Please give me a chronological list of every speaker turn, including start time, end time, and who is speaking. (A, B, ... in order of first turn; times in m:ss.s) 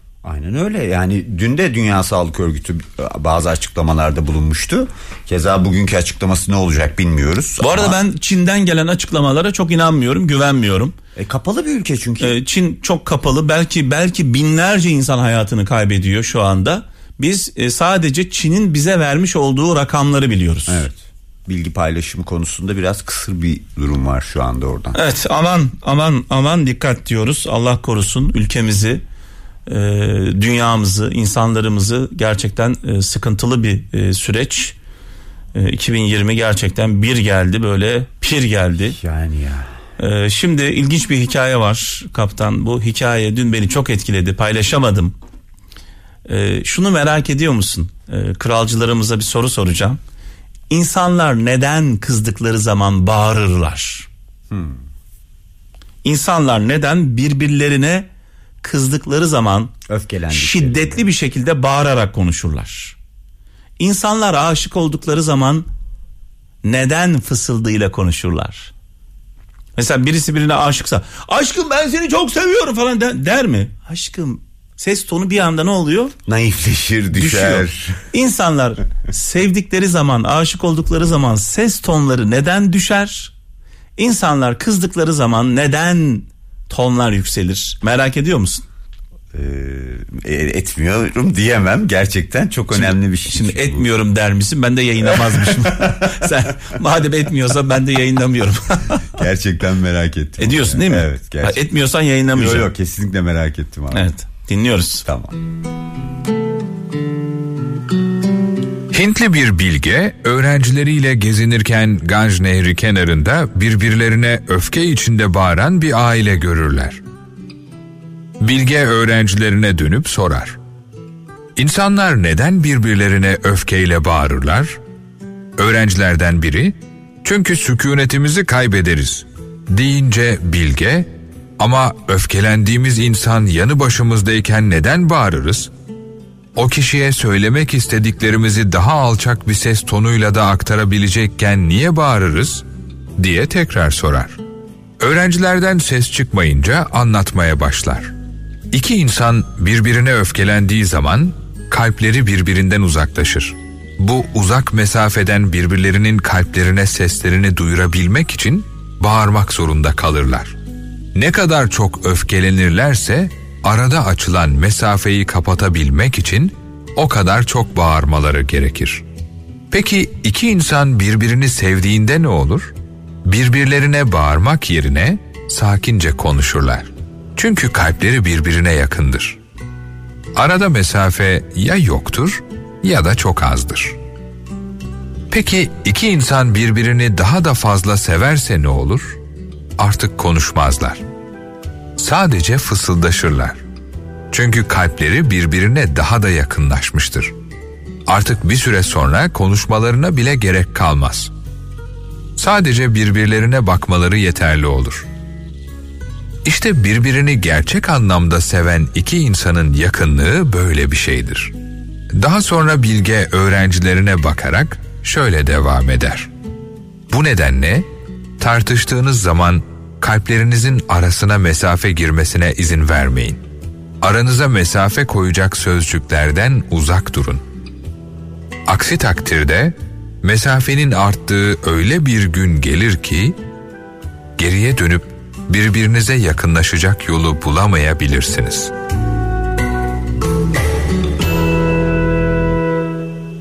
0:00.2-0:08.0 A
0:07.6-0:10.9 B
0:11.2-0:12.4 A
0:12.2-0:20.8 B
0:20.7-0:25.0 A
0:24.9-0:29.0 B
0:29.7-0:34.8 B
0:35.5-0:39.0 B
0:39.0-0:39.7 A
0:40.0-0:45.1 B
0:46.2-0:50.0 B
0:50.7-0:54.1 B
0:54.5-0:54.8 A
0:56.0-0:58.1 B
0:58.6-0:59.7 B
0:59.9-1:01.0 A
1:00.3-1:03.0 B
1:03.8-1:05.6 B
1:06.6-1:08.7 B
1:09.8-1:16.1 B
1:16.3-1:18.0 A
1:17.1-1:23.3 B
1:24.0-1:28.6 B
1:29.3-1:33.9 A
1:32.7-1:39.2 B
1:35.4-1:36.0 A
1:39.1-1:41.6 A
1:40.4-1:42.7 B
1:42.3-1:44.1 A
1:43.9-1:45.0 B
1:45.0-1:45.3 A
1:48.9-1:57.0 C
1:58.4-2:00.6 C
2:01.6-2:04.8 C
2:05.6-2:11.1 C
2:11.6-2:15.7 C
2:16.6-2:22.6 C
2:23.2-2:24.4 C
2:25.0-2:28.1 C
2:28.7-2:40.5 C
2:41.1-2:49.0 C
2:49.7-2:52.7 C
2:53.2-2:59.4 C
3:00.4-3:04.0 C
3:05.3-3:09.2 C
3:09.8-3:11.0 C
3:12.0-3:13.6 C
3:14.3-3:17.3 C
3:18.1-3:21.3 C
3:22.4-3:25.1 C
3:26.4-3:31.5 C
3:32.2-3:36.3 C
3:37.1-3:37.8 C
3:38.4-3:43.4 C
3:44.0-3:47.4 C
3:48.7-3:53.4 C
3:54.4-3:58.7 C